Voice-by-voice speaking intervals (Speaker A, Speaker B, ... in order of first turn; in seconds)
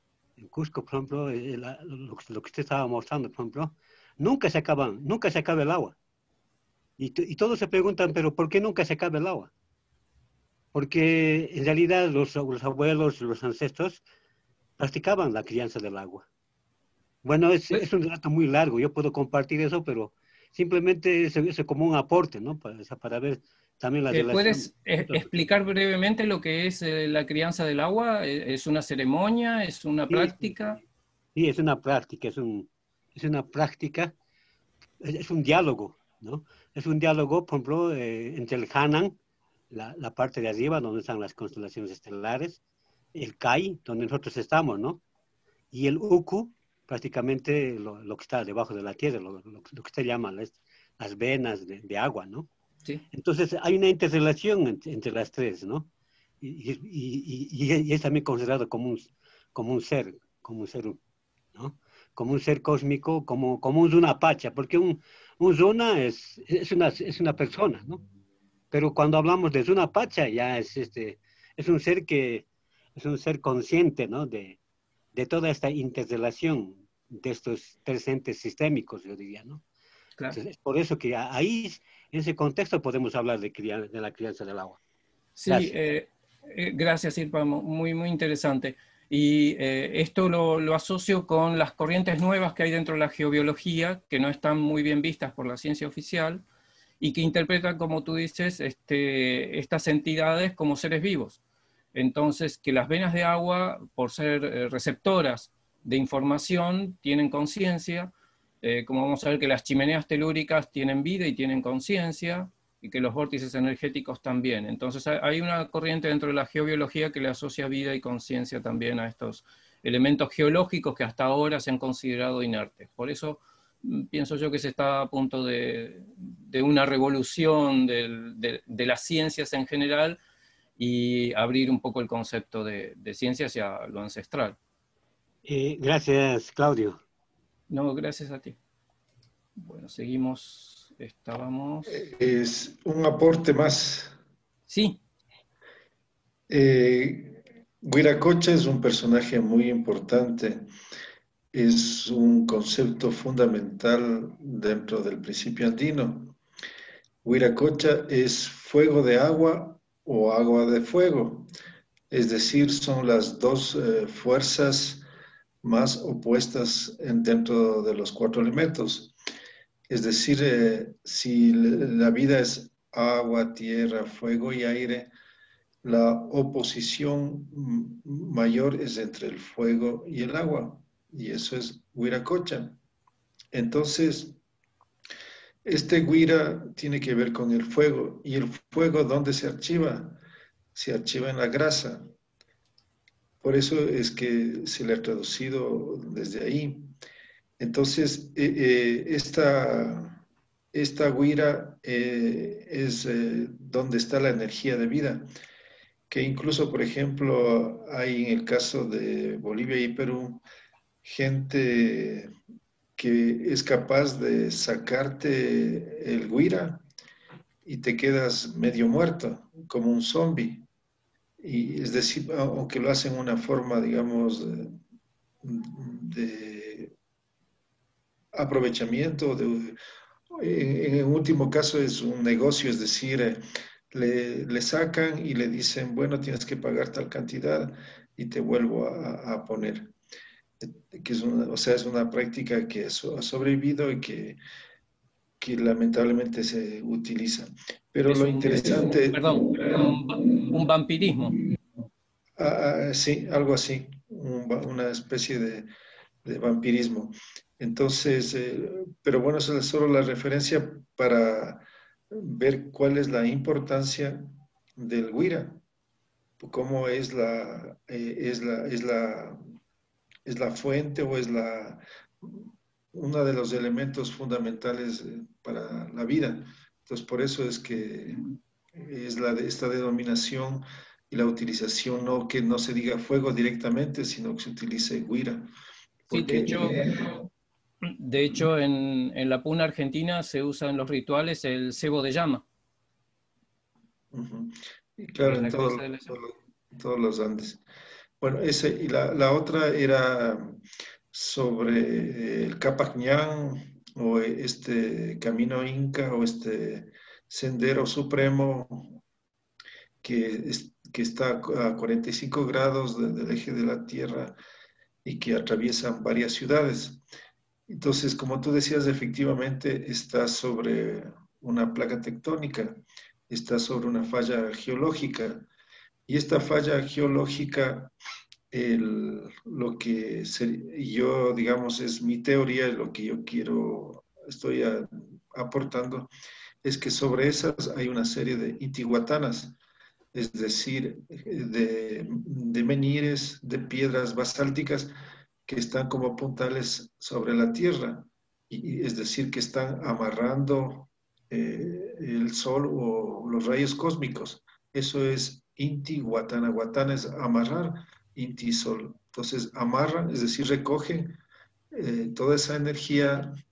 Speaker A: 0.4-6.0, 7.0-9.5, 10.7-14.0, 14.8-16.3, 17.2-25.4, 30.1-30.6, 31.4-34.1, 35.0-39.2, 39.7-42.6, 43.1-45.0, 45.7-52.5, 53.1-55.9, 56.4-61.0, 61.5-68.0, 68.7-74.6, 75.1-79.6, 80.3-84.8, 85.5-85.7, 135.4-137.0
Speaker B: 24.1-30.8, 85.4-96.4, 97.0-101.4, 101.9-108.1, 108.6-130.2, 130.8-134.6, 137.7-138.6, 139.6-142.0, 144.7-145.0, 248.1-251.4, 286.1-286.9, 287.8-292.4, 295.2-296.2
Speaker C: 141.9-144.2, 146.5-150.7, 151.5-156.4, 157.2-161.5, 162.1-165.0, 165.6-169.1, 169.9-175.1, 175.8-182.8, 183.5-184.4, 185.7-190.2, 190.8-192.1, 193.4-196.9, 197.6-200.2, 200.7-205.3, 206.1-210.4, 211.0-212.3, 213.0-216.8, 217.7-220.7, 221.4-224.8, 225.4-226.9, 228.3-229.8, 230.3-239.9, 240.6-244.4, 245.4-250.0, 252.4-255.7, 256.2-265.6, 266.4-269.4, 270.3-285.5, 286.1-287.3, 294.1-297.6, 298.2-300.6, 301.1-309.0, 310.0-314.4, 315.1-317.0, 317.7-325.5, 326.1-327.9, 328.5-336.1, 336.6-339.6, 340.1-344.9, 345.5-361.2, 361.7-363.3